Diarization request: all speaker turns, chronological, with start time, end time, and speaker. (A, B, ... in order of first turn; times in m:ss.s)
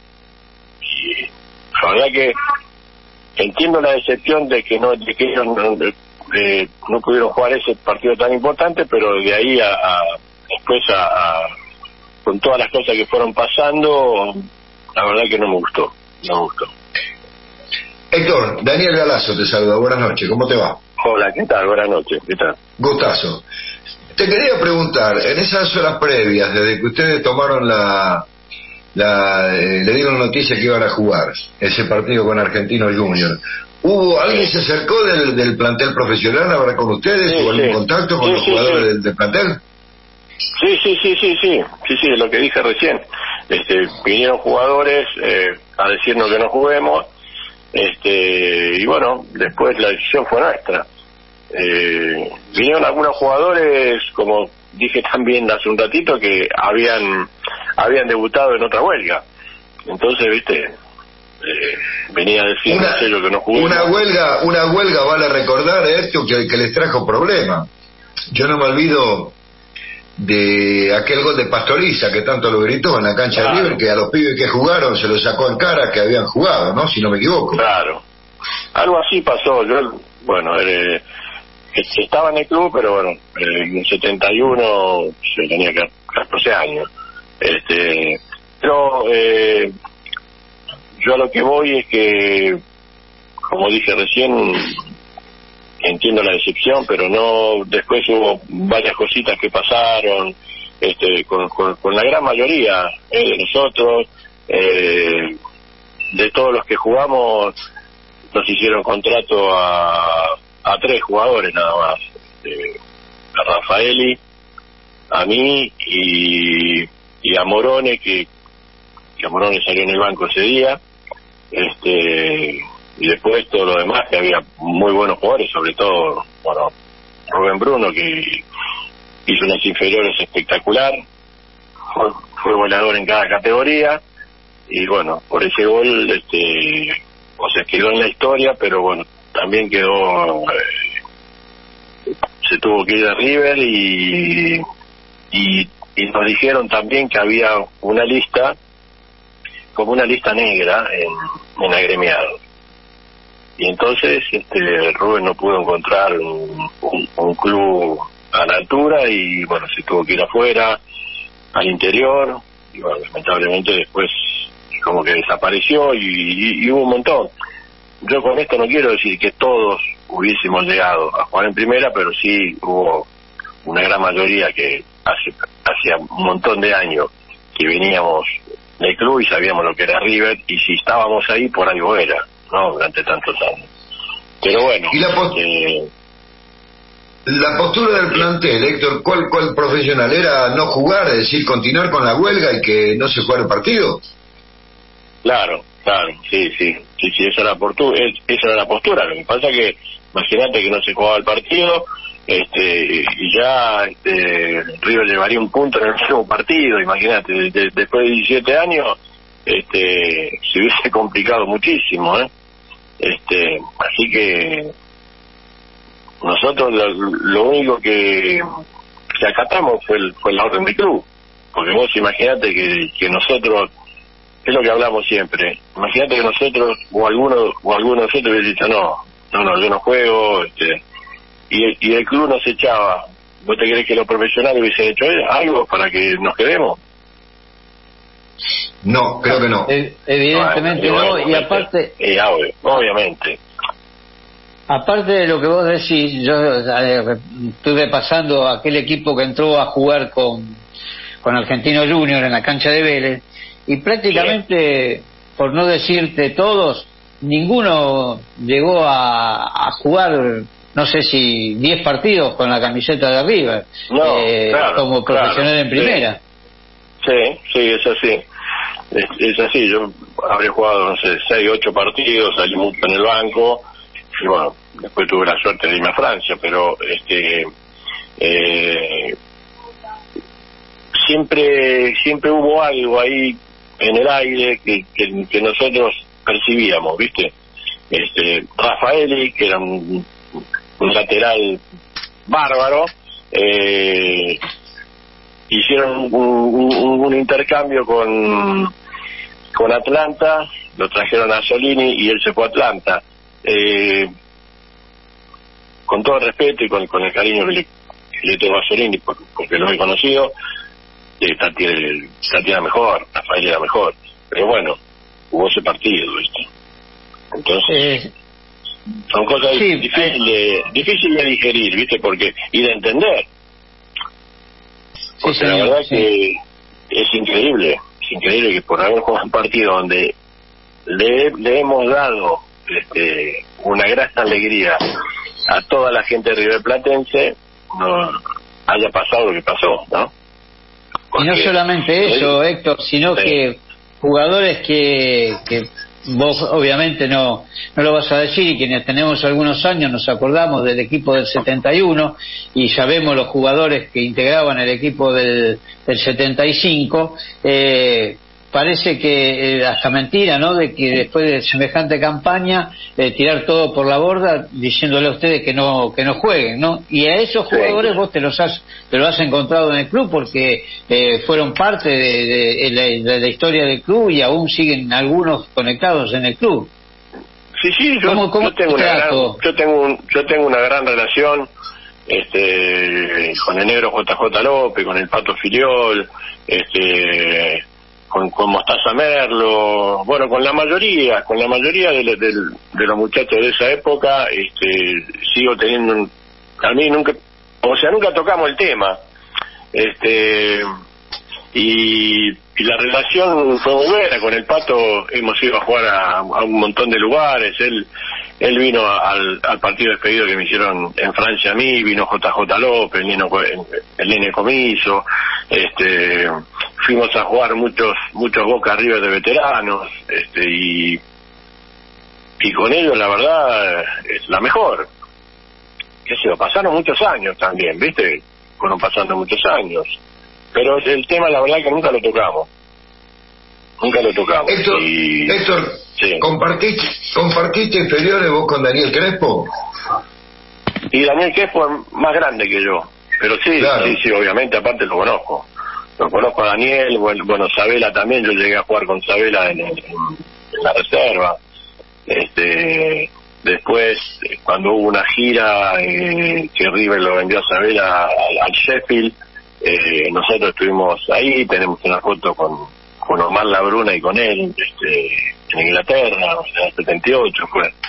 0:00.8-0:02.4 A
0:03.4-0:11.5 A
0:12.2-0:14.4 A
0:15.0-0:16.7 A
0:18.1-0:20.8 B
0:21.0-0:22.6 A
0:22.8-0:23.4 B
0:24.2-0:28.2 B
0:29.0-0:39.6 B
0:37.3-0:38.9 A
0:40.6-0:47.1 A
0:47.7-0:50.9 A
0:51.5-0:59.2 A
0:59.9-1:00.7 A
1:01.4-1:03.9 A
1:02.7-1:07.7 B
1:08.3-1:09.4 B
1:10.2-1:17.6 B
1:13.3-1:13.8 A
1:17.5-1:18.0 A
1:18.8-1:21.0 A
1:21.7-1:26.9 A
1:27.4-1:29.7 A
1:31.0-1:32.6 A
1:33.5-1:34.7 A
1:35.8-1:45.4 A
1:46.1-1:47.5 A
1:48.3-1:52.8 A
1:53.3-1:54.2 A
1:55.1-1:58.3 A
1:59.2-2:00.8 A
2:01.5-2:06.7 A
2:07.3-2:08.4 A
2:09.3-2:11.0 A
2:11.9-2:14.0 A
2:14.7-2:20.6 A
2:22.4-2:24.6 A
2:25.3-2:28.6 A
2:29.8-2:32.4 A
2:33.6-2:40.8 A
2:41.5-2:47.3 A
2:48.0-2:53.1 A
2:53.6-2:58.3 A
2:58.8-3:03.7 A
3:04.4-3:05.9 A
3:04.9-3:05.4 B
3:07.3-3:14.0 B
3:15.2-3:32.3 A
3:33.0-3:34.7 A
3:36.2-3:38.4 A
3:39.2-3:43.7 A
3:44.4-3:50.8 A
3:51.5-3:56.8 A
3:58.8-3:59.7 B
3:59.7-4:02.0 C
4:00.3-4:03.4 A
4:04.7-4:10.6 C
4:11.2-4:26.2 C
4:23.9-4:26.0 A
4:27.0-4:28.2 A
4:28.9-4:33.6 A
4:34.2-4:37.5 A
4:38.2-4:39.2 A
4:41.0-4:47.3 A
4:47.9-4:50.1 A
4:50.8-4:51.6 A
4:52.3-4:54.4 A
4:55.5-4:58.7 A
4:59.5-5:04.1 A
5:05.9-5:07.7 A
5:08.2-5:10.3 A
5:11.2-5:14.8 A
5:15.3-5:16.5 A
5:17.3-5:18.0 A
5:17.7-5:18.1 C
5:19.1-5:23.3 A
5:19.5-5:20.1 C
5:25.2-5:26.0 C
5:25.2-5:26.4 A
5:26.9-5:30.1 A
5:30.9-5:34.8 A
5:35.5-5:40.1 A
5:41.1-5:41.5 A
5:41.2-6:16.7 C
5:42.0-5:42.4 A
6:07.5-6:08.0 A
6:17.6-6:21.5 A
6:18.1-6:19.4 C
6:22.1-6:36.1 A
6:36.6-6:39.0 A
6:39.7-6:40.7 A
6:41.5-6:47.9 A
6:48.4-7:01.0 A
7:02.4-7:04.9 A
7:06.1-7:10.0 A
7:10.5-7:12.5 A
7:13.8-7:15.4 A
7:14.5-7:19.5 B
7:16.0-7:16.2 A
7:20.9-7:25.5 A
7:23.6-7:24.0 B
7:26.0-7:31.4 A
7:32.1-7:47.7 A